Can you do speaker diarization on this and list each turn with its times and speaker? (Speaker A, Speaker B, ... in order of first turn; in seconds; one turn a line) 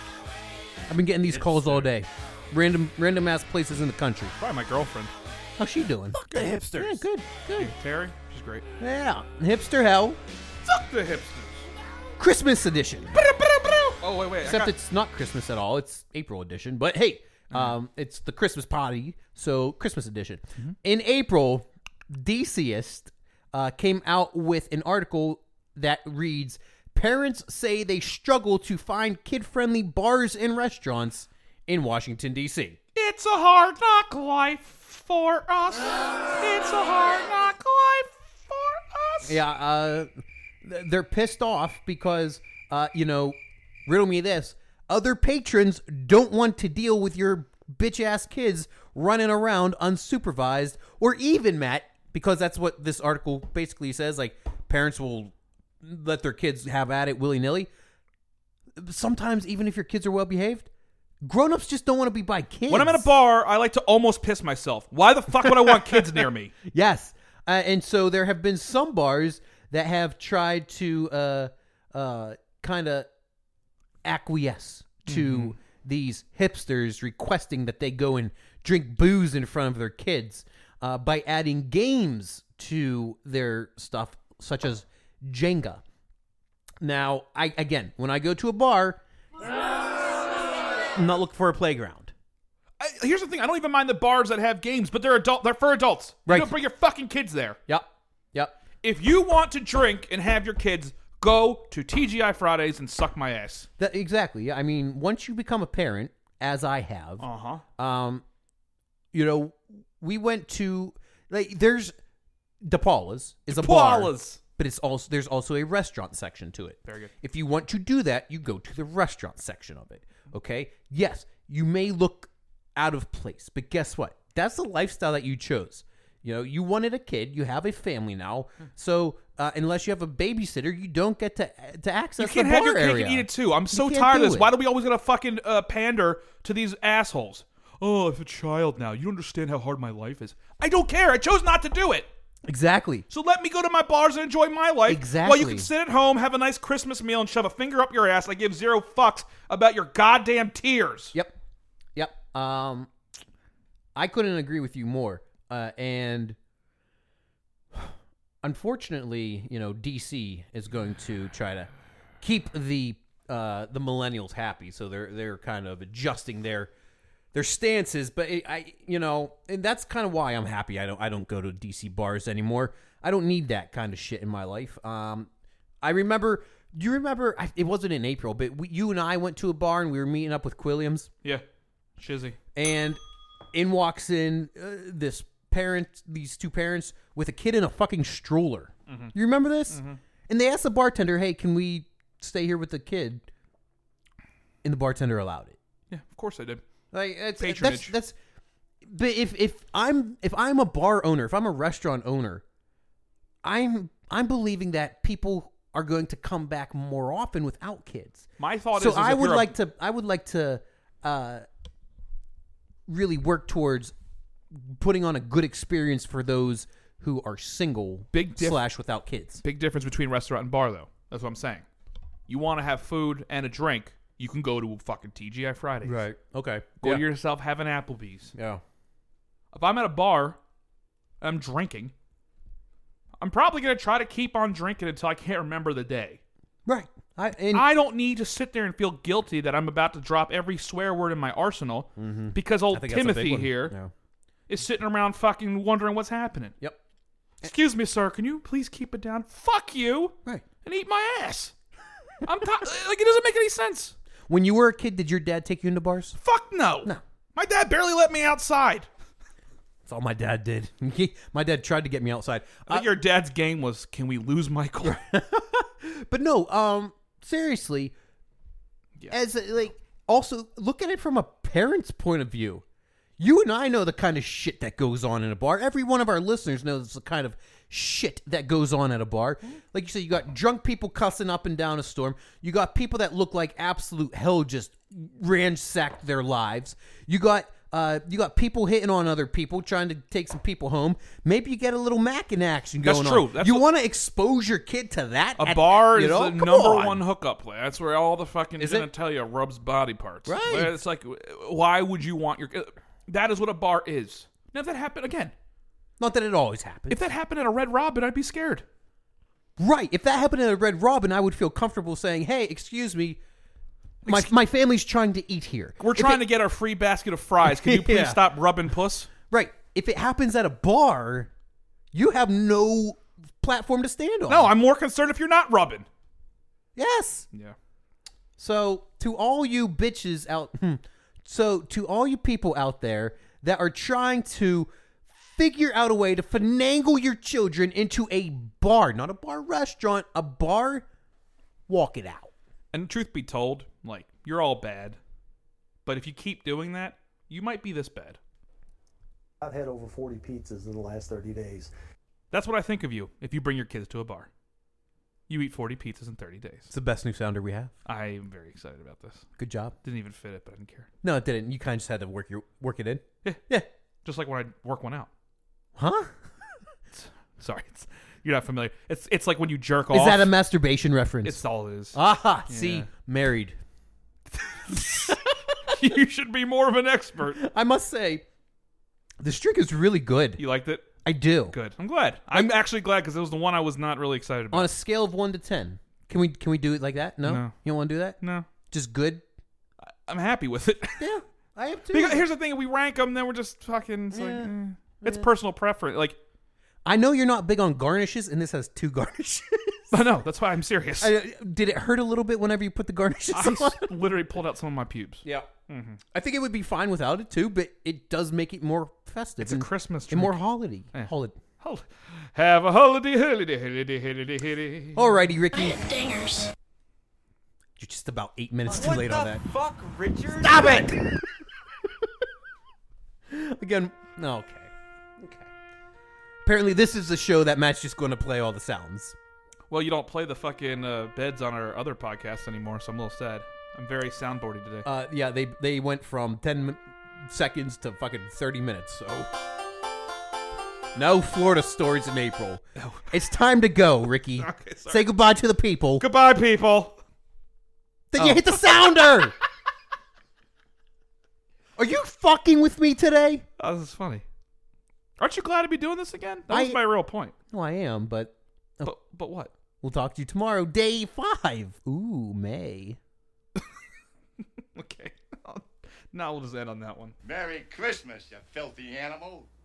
Speaker A: 0.9-4.3
Speaker B: 1.2-1.9
Speaker B: 4.4-5.1
Speaker A: 5.6-7.7
Speaker B: 6.1-8.7
Speaker A: 8.8-10.2
Speaker B: 10.6-11.7
Speaker A: 12.2-13.2
Speaker B: 13.1-14.7
Speaker A: 14.4-32.8
Speaker B: 17.5-17.8
Speaker B: 32.9-39.4
Speaker A: 39.2-40.1
Speaker A: 40.6-57.7
Speaker A: 58.8-60.7
Speaker A: 61.2-63.1
Speaker B: 62.7-66.5
Speaker A: 65.5-66.0
Speaker A: 66.7-73.0
Speaker A: 74.0-85.8
Speaker B: 75.1-75.5
Speaker A: 86.8-89.0
Speaker A: 90.9-92.1
Speaker B: 92.8-97.6
Speaker A: 96.3-96.6
Speaker A: 97.7-98.6
Speaker B: 98.8-103.7
Speaker A: 103.8-107.2
Speaker B: 107.2-107.6
Speaker A: 107.8-108.2
Speaker A: 109.1-111.9
Speaker A: 112.6-134.5
Speaker B: 113.5-114.4
Speaker B: 116.8-117.1
Speaker B: 132.2-142.1
Speaker A: 142.4-143.1
Speaker B: 143.1-151.1
Speaker A: 144.8-145.7
Speaker A: 151.9-152.9
Speaker A: 153.9-156.3
Speaker A: 157.7-161.7
Speaker A: 162.2-166.7
Speaker A: 167.3-175.3
Speaker A: 175.8-181.1
Speaker B: 182.0-182.4
Speaker A: 182.5-183.0
Speaker A: 183.5-193.2
Speaker B: 188.9-189.1
Speaker B: 189.7-190.0
Speaker A: 194.6-195.6
Speaker B: 195.9-196.6
Speaker A: 196.9-198.1
Speaker B: 197.4-197.9
Speaker A: 198.8-202.4
Speaker A: 203.4-211.4
Speaker B: 208.4-209.5
Speaker A: 212.9-213.9
Speaker A: 214.6-219.4
Speaker B: 218.1-218.6
Speaker B: 219.4-221.7
Speaker B: 222.3-226.0
Speaker A: 225.8-227.0
Speaker B: 226.8-228.3
Speaker A: 228.3-228.6
Speaker B: 229.5-230.4
Speaker B: 231.2-231.9
Speaker B: 233.2-236.2
Speaker A: 236.7-237.7
Speaker B: 237.5-243.7
Speaker A: 242.0-243.9
Speaker B: 244.5-246.5
Speaker B: 247.4-251.5
Speaker B: 252.2-253.9
Speaker A: 254.3-256.2
Speaker B: 256.1-258.9
Speaker A: 259.9-262.9
Speaker B: 262.7-265.0
Speaker A: 264.8-267.9
Speaker A: 269.1-272.6
Speaker A: 273.2-297.0
Speaker B: 292.8-293.6
Speaker B: 295.4-305.3
Speaker A: 298.6-298.9
Speaker A: 300.2-300.8
Speaker A: 306.0-307.0
Speaker B: 306.9-308.6
Speaker A: 309.6-313.2
Speaker B: 314.0-314.3
Speaker A: 314.0-316.2
Speaker B: 315.8-319.1
Speaker A: 317.4-318.3
Speaker A: 319.3-321.3
Speaker A: 321.9-324.5
Speaker B: 324.3-325.9
Speaker A: 326.8-327.3
Speaker A: 328.4-340.9
Speaker A: 341.7-342.3
Speaker B: 342.7-345.0
Speaker B: 345.9-348.2
Speaker C: 349.4-351.7
Speaker B: 352.3-354.3
Speaker B: 355.3-356.7
Speaker A: 356.7-357.7
Speaker B: 357.9-359.2
Speaker A: 359.4-359.7
Speaker B: 359.8-360.9
Speaker A: 361.0-363.6
Speaker B: 364.0-365.1
Speaker A: 365.8-366.2
Speaker B: 366.9-370.3
Speaker A: 369.9-373.6
Speaker B: 371.2-372.9
Speaker B: 374.4-377.4
Speaker A: 377.3-378.2
Speaker A: 379.2-380.4
Speaker B: 380.4-380.9
Speaker A: 381.0-381.6
Speaker B: 381.5-384.7
Speaker A: 384.5-388.2
Speaker B: 387.2-387.5
Speaker B: 388.2-388.5
Speaker A: 388.7-389.2
Speaker B: 389.9-391.1
Speaker A: 391.0-392.3
Speaker B: 391.9-396.2
Speaker A: 394.1-395.3
Speaker A: 396.8-400.0
Speaker B: 399.9-401.1
Speaker A: 401.0-404.0
Speaker B: 403.3-406.0
Speaker A: 405.2-405.5
Speaker A: 406.1-411.4
Speaker B: 409.4-410.4
Speaker B: 410.9-415.2
Speaker A: 414.9-416.1
Speaker A: 417.8-419.4
Speaker D: 418.8-420.9
Speaker A: 420.3-421.1
Speaker A: 423.3-425.5
Speaker A: 426.4-429.1
Speaker B: 429.7-434.9
Speaker A: 434.8-439.3
Speaker A: 440.9-446.1
Speaker B: 442.8-443.1
Speaker B: 444.4-445.1
Speaker B: 446.0-447.0
Speaker A: 448.1-449.4
Speaker B: 448.1-449.3
Speaker A: 451.8-453.4
Speaker B: 453.6-454.2
Speaker B: 455.2-457.3
Speaker A: 456.5-456.8
Speaker A: 457.5-458.9
Speaker B: 458.8-459.5
Speaker A: 459.8-463.0
Speaker B: 464.7-467.1
Speaker E: 467.2-469.5